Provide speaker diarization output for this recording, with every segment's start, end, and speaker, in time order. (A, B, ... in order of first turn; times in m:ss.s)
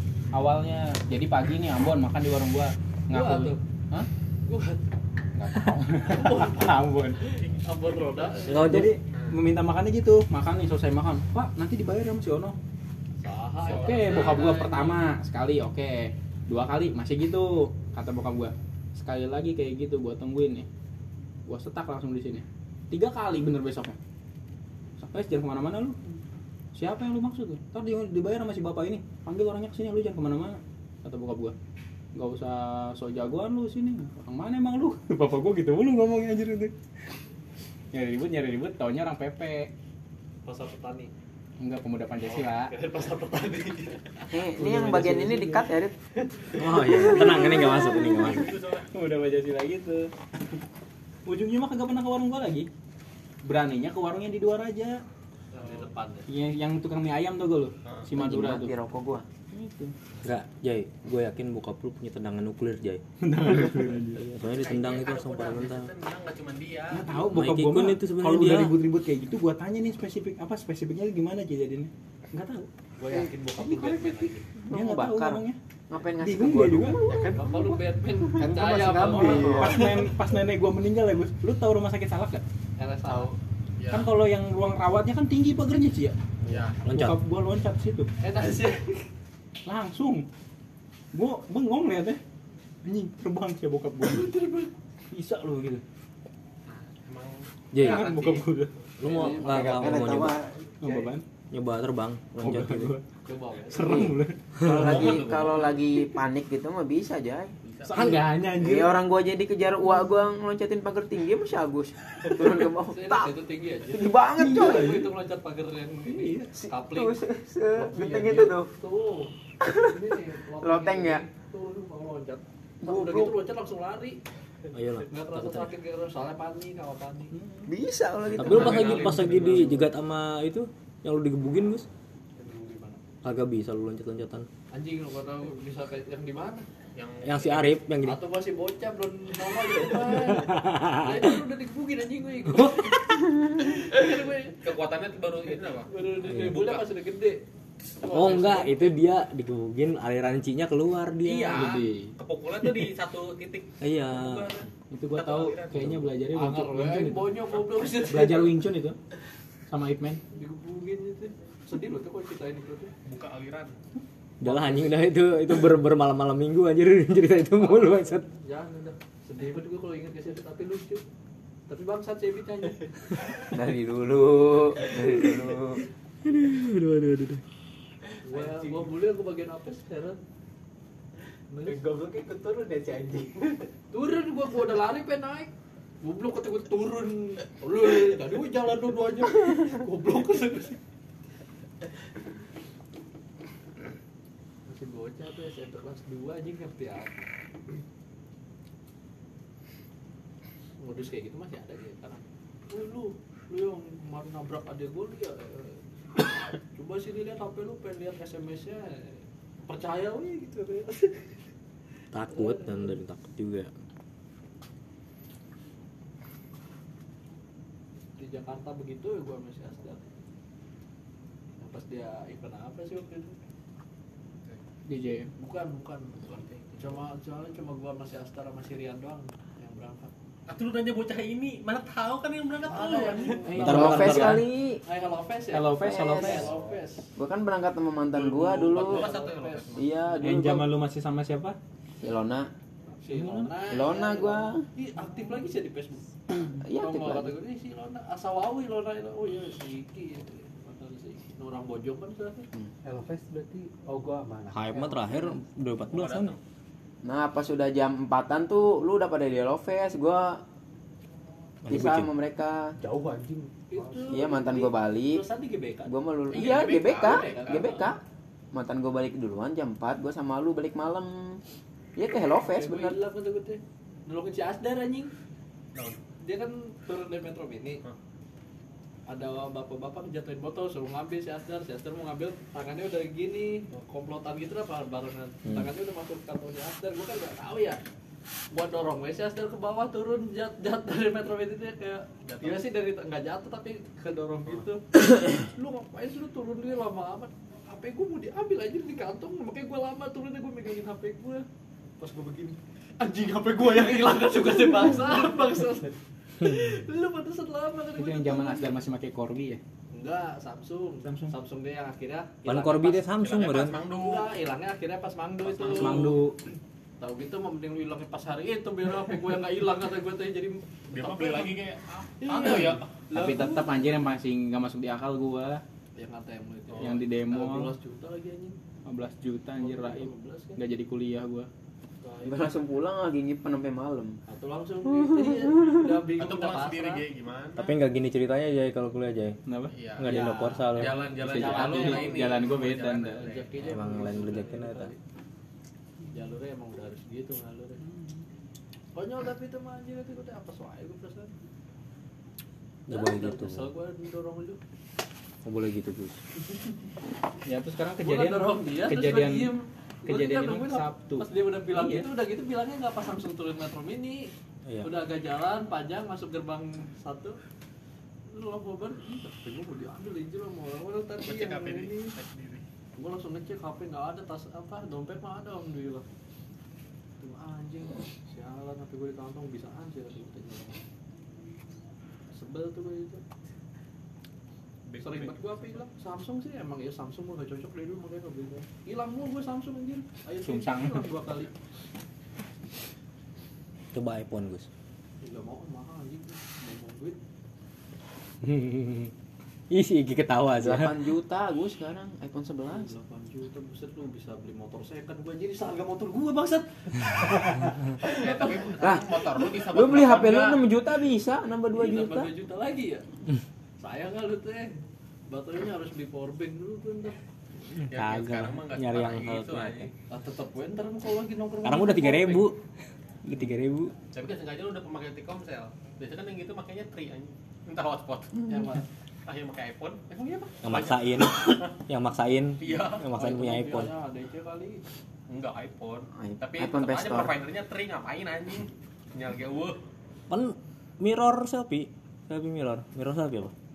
0:00.3-0:04.1 A
0:03.1-0:03.6 B
0:04.5-0:04.8 B
0:05.4-0:07.2 A
0:06.0-0:08.8 B
0:07.3-0:08.4 C
0:08.5-0:12.6 A
0:08.5-0:09.0 D
0:09.1-0:09.4 C
0:13.2-0:14.7 B
0:13.6-0:15.0 C
0:13.6-0:20.7 A
0:21.5-0:24.0 A
0:25.0-0:26.0 A
0:26.8-0:31.5 A
0:32.2-0:36.7 A
0:37.9-0:39.7 A
0:40.4-0:41.1 B
0:41.6-0:42.7 A
0:42.2-0:45.2 B
0:44.3-0:45.9 E
0:44.6-0:45.6 A
0:46.4-0:47.0 B
0:46.6-0:48.5 D
0:46.9-0:48.2 A
0:47.1-0:48.9 C
0:48.9-0:50.1 A
0:51.3-0:52.7 A
0:53.4-0:55.0 A
0:55.5-0:56.3 B
0:56.3-0:58.7 A
0:57.8-0:58.1 C
0:58.2-0:59.3 E
0:59.5-0:59.9 A
1:00.2-1:03.0 D
1:03.2-1:04.2 A
1:04.2-1:05.9 D
1:04.4-1:07.2 C
1:06.9-1:12.7 A
1:07.3-1:08.8 D
1:13.0-1:14.4 B
1:13.6-1:15.6 A
1:14.7-1:17.4 E
1:16.2-1:17.1 A
1:17.0-1:18.6 F
1:17.4-1:19.9 B
1:18.4-1:22.4 A
1:19.1-1:20.1 F
1:19.2-1:19.8 E
1:22.8-1:23.4 B
1:23.8-1:24.1 C
1:23.9-1:26.2 A
1:26.5-1:26.8 C
1:26.8-1:27.2 D
1:26.9-1:28.1 A
1:28.2-1:29.1 B
1:29.6-1:30.3 A
1:31.1-1:32.2 A
1:32.8-1:34.4 A
1:34.0-1:34.7 B
1:35.1-1:35.8 A
1:36.7-1:38.5 C
1:37.7-1:38.1 D
1:37.8-1:38.7 A
1:39.0-1:40.4 D
1:39.0-1:39.8 B
1:39.3-1:40.5 E
1:40.8-1:41.2 A
1:40.8-1:41.1 F
1:41.5-1:43.0 D
1:42.4-1:43.0 A
1:43.2-1:44.1 B
1:43.7-1:44.7 A
1:43.8-1:55.0 E
1:44.6-1:45.0 D
1:44.7-1:45.9 C
1:47.6-1:48.2 C
1:47.9-1:49.0 A
1:52.6-1:57.2 B
1:54.4-1:55.1 A
1:56.0-1:56.6 A
1:56.5-1:58.7 E
1:57.8-2:04.2 B
2:00.6-2:01.2 E
2:02.8-2:03.4 E
2:04.7-2:05.7 D
2:05.0-2:07.4 B
2:07.3-2:07.7 A
2:07.7-2:09.2 E
2:08.4-2:09.8 C
2:08.4-2:11.9 D
2:09.2-2:09.7 A
2:12.4-2:13.0 B
2:13.2-2:14.5 D
2:14.7-2:16.7 B
2:16.9-2:17.8 C
2:17.2-2:18.2 D
2:18.0-2:24.6 B
2:20.0-2:21.4 D
2:22.5-2:22.9 D
2:24.5-2:26.9 C
2:25.8-2:27.4 B
2:26.3-2:26.6 D
2:27.8-2:29.0 C
2:28.1-2:31.7 D
2:31.2-2:36.0 C
2:31.4-2:32.2 A
2:33.8-2:34.5 D
2:34.9-2:37.4 A
2:36.3-2:38.6 B
2:38.0-2:39.0 A
2:39.7-2:40.2 A
2:40.3-2:42.9 B
2:43.0-2:43.7 C
2:44.4-2:48.3 D
2:44.4-2:44.9 B
2:47.6-2:51.0 B
2:51.7-2:53.0 B
2:53.4-2:55.8 E
2:56.2-2:57.4 D
2:58.2-3:00.2 B
2:58.3-2:58.9 F
3:01.5-3:01.8 B
3:01.6-3:03.5 F
3:03.9-3:10.8 B
3:14.7-3:17.2 B
3:20.8-3:25.8 B
3:26.7-3:31.4 B
3:32.1-3:33.7 D
3:32.3-3:33.0 B
3:38.2-3:40.1 B
3:41.6-3:43.4 B
3:44.9-3:45.3 A
3:45.4-3:50.1 B
3:46.3-3:47.0 C
3:50.5-3:53.6 C
3:52.7-3:54.3 B
3:53.5-3:54.4 A
3:53.6-3:54.4 D
3:53.6-3:54.8 E
3:54.8-3:57.1 B
3:55.5-3:56.5 A
3:55.6-3:56.6 E
3:57.2-3:59.1 E
3:58.1-3:59.9 C
3:58.7-3:59.9 B
3:59.8-4:00.8 E
4:00.2-4:01.6 A
4:02.0-4:02.5 E
4:03.0-4:12.5 B
4:03.1-4:03.6 A
4:03.7-4:04.6 E
4:06.5-4:07.4 E
4:12.8-4:15.0 F
4:14.5-4:16.3 D
4:15.9-4:16.4 C
4:17.0-4:20.4 E
4:21.6-4:22.1 D
4:21.7-4:22.6 E
4:22.8-4:24.5 F
4:23.7-4:27.9 B
4:24.1-4:25.2 E
4:25.8-4:28.0 E
4:26.3-4:27.7 C
4:28.5-4:31.4 E
4:32.0-4:33.0 E
4:32.2-4:35.1 B
4:35.7-4:36.0 C
4:36.2-4:37.8 B
4:39.1-4:47.8 B
4:48.5-5:01.5 B
4:52.2-4:52.6 C
5:02.0-5:08.8 B
5:08.0-5:09.6 A
5:09.9-5:13.1 B
5:11.0-5:11.3 A
5:12.4-5:13.8 D
5:13.2-5:14.3 C
5:13.9-5:16.2 B
5:15.5-5:16.0 C
5:15.7-5:16.4 A
5:17.0-5:21.6 B
5:20.9-5:22.9 C
5:22.2-5:23.9 B
5:23.1-5:25.6 A
5:26.0-5:28.6 B
5:26.8-5:27.8 A
5:28.9-5:31.5 A
5:29.6-5:30.6 B
5:32.0-5:32.5 B
5:32.2-5:34.2 E
5:34.3-5:37.0 B
5:36.2-5:37.7 C
5:37.6-5:39.4 D
5:39.5-5:40.1 A
5:39.7-5:40.2 C
5:40.0-5:41.8 D
5:40.1-5:40.6 B
5:40.7-5:43.5 C
5:41.2-5:43.2 A
5:41.5-5:42.6 B
5:43.1-5:45.0 B
5:43.6-5:44.9 D
5:46.1-5:47.8 B
5:49.0-5:51.3 B
5:52.9-5:53.7 D
5:52.9-5:54.6 B
5:55.4-5:56.2 D
5:57.5-5:59.5 A
5:58.0-6:07.4 B
6:00.1-6:02.1 A
6:04.7-6:04.9 D
6:08.3-6:12.2 B
6:11.2-6:12.6 C
6:13.0-6:16.1 B
6:17.2-6:20.9 B
6:22.3-6:23.2 B
6:24.9-6:25.8 C
6:25.0-6:31.5 B
6:30.4-6:31.1 A
6:33.9-6:34.7 D
6:35.2-6:37.2 B
6:38.4-6:39.1 D
6:39.7-6:41.1 D
6:40.6-6:42.9 E
6:42.7-6:48.9 B
6:48.0-6:50.7 C
6:48.8-6:52.3 E
6:51.7-6:53.1 B
6:53.8-6:57.2 B
6:57.9-6:59.9 C
6:57.9-6:59.9 D
7:00.1-7:02.5 B
7:01.6-7:02.6 D
7:03.2-7:03.9 D
7:04.1-7:08.4 C
7:08.5-7:08.8 B
7:09.2-7:10.0 C
7:10.1-7:10.5 B
7:10.6-7:13.9 D
7:10.7-7:11.7 C
7:12.6-7:13.1 C
7:13.2-7:14.8 B
7:15.3-7:19.8 C
7:16.2-7:17.3 E
7:20.3-7:23.5 D